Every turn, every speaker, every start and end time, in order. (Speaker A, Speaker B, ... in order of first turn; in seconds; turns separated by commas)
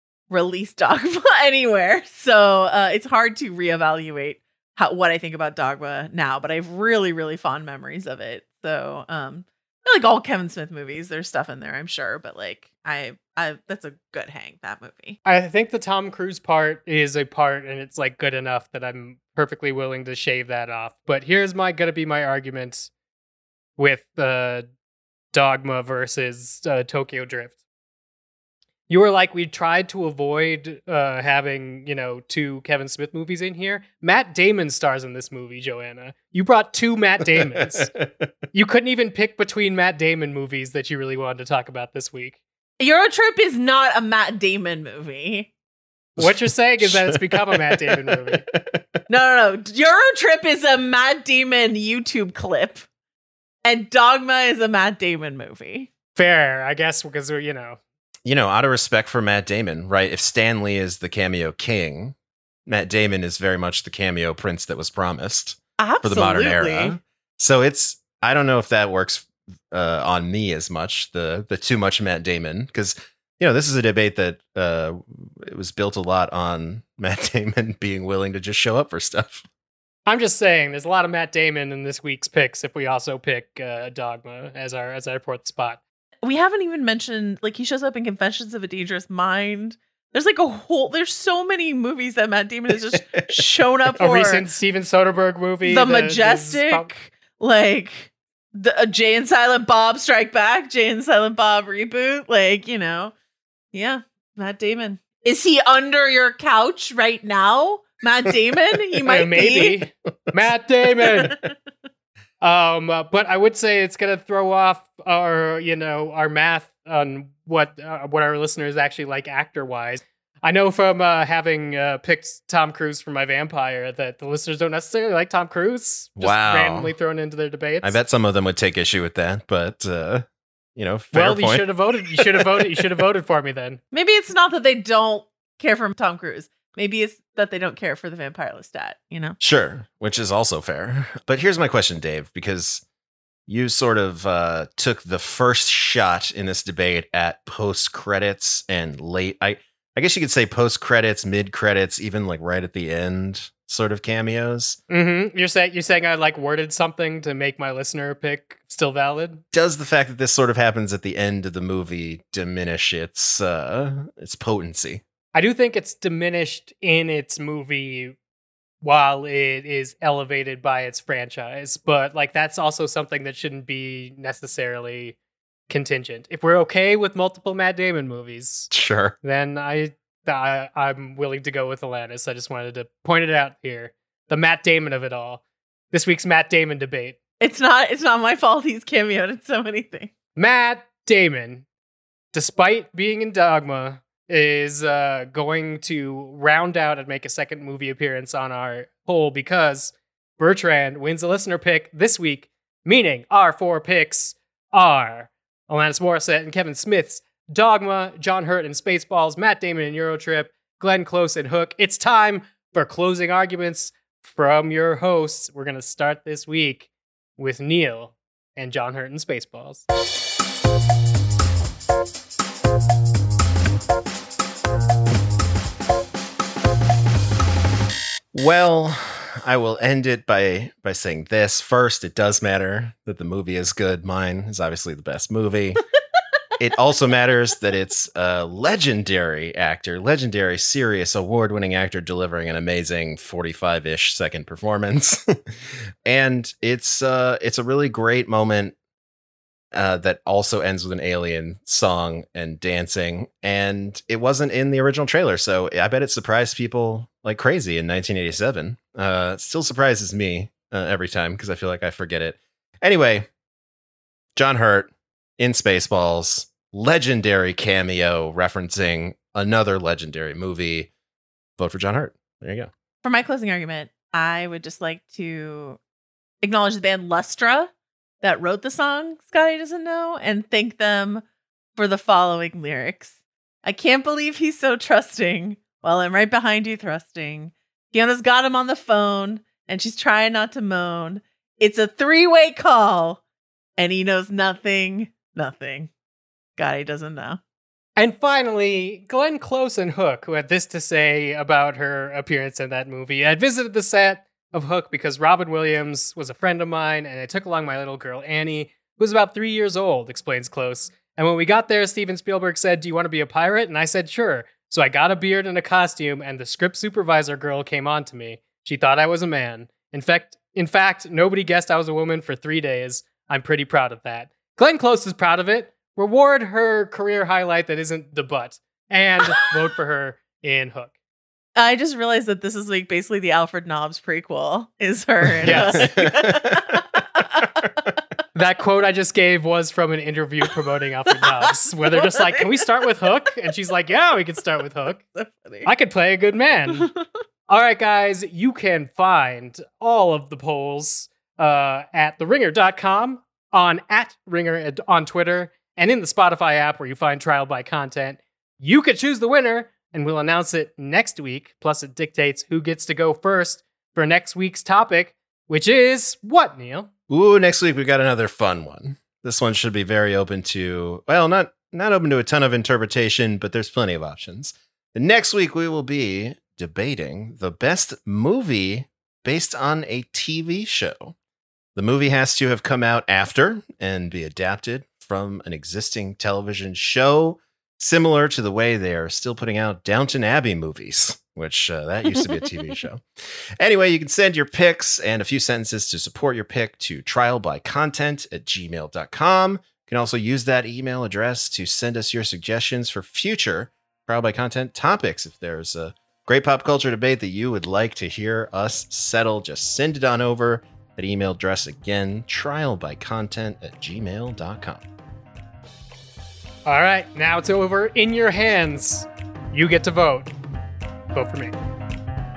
Speaker A: 0.3-15.2, Speaker B: 15.2-22.9, Speaker B: 23.8-24.7, Speaker B: 25.3-27.6, Speaker B: 28.9-37.9, Speaker C: 37.4-38.3, Speaker B: 38.5-42.4, Speaker A: 42.8-45.5, Speaker C: 46.2-48.8, Speaker B: 46.2-48.5, Speaker A: 49.1-52.9, Speaker A: 53.6-55.9, Speaker B: 56.2-57.8, Speaker C: 58.3-62.1, Speaker C: 62.7-79.5, Speaker A: 65.8-67.0, Speaker B: 80.1-85.8, Speaker A: 86.2-94.4, Speaker C: 92.9-93.4, Speaker B: 94.0-96.9, Speaker A: 95.6-103.1, Speaker A: 103.7-109.8, Speaker B: 109.1-111.4, Speaker A: 111.0-111.5, Speaker B: 112.4-128.0, Speaker C: 126.2-126.9, Speaker C: 127.8-132.8, Speaker B: 131.1-133.8, Speaker A: 133.9-139.4, Speaker C: 139.4-142.8, Speaker C: 143.5-154.8, Speaker B: 154.9-159.4, Speaker C: 159.5-165.0, Speaker B: 165.3-168.2, Speaker B: 168.8-175.2, Speaker B: 175.7-178.7, Speaker C: 178.7-179.2, Speaker B: 179.2-185.4, Speaker B: 185.9-187.2, Speaker A: 187.4-190.1, Speaker B: 190.3-191.7, Speaker B: 192.3-219.9, Speaker C: 228.3-235.8, Speaker C: 236.6-248.8, Speaker C: 249.7-263.3, Speaker C: 264.4-270.9, Speaker C: 271.6-272.7, Speaker A: 273.0-275.8, Speaker A: 276.4-281.2, Speaker A: 281.8-293.2, Speaker A: 293.8-295.9, Speaker A: 296.6-297.4, Speaker B: 298.0-330.9, Speaker A: 331.6-337.6, Speaker C: 335.4-336.7, Speaker B: 335.4-335.9, Speaker B: 338.4-345.0, Speaker A: 341.2-342.8, Speaker A: 345.1-345.7, Speaker B: 345.6-346.9, Speaker A: 346.7-347.0, Speaker B: 347.5-366.9, Speaker C: 367.1-381.1, Speaker C: 381.8-414.9, Speaker B: 416.7-420.3, Speaker B: 421.1-421.6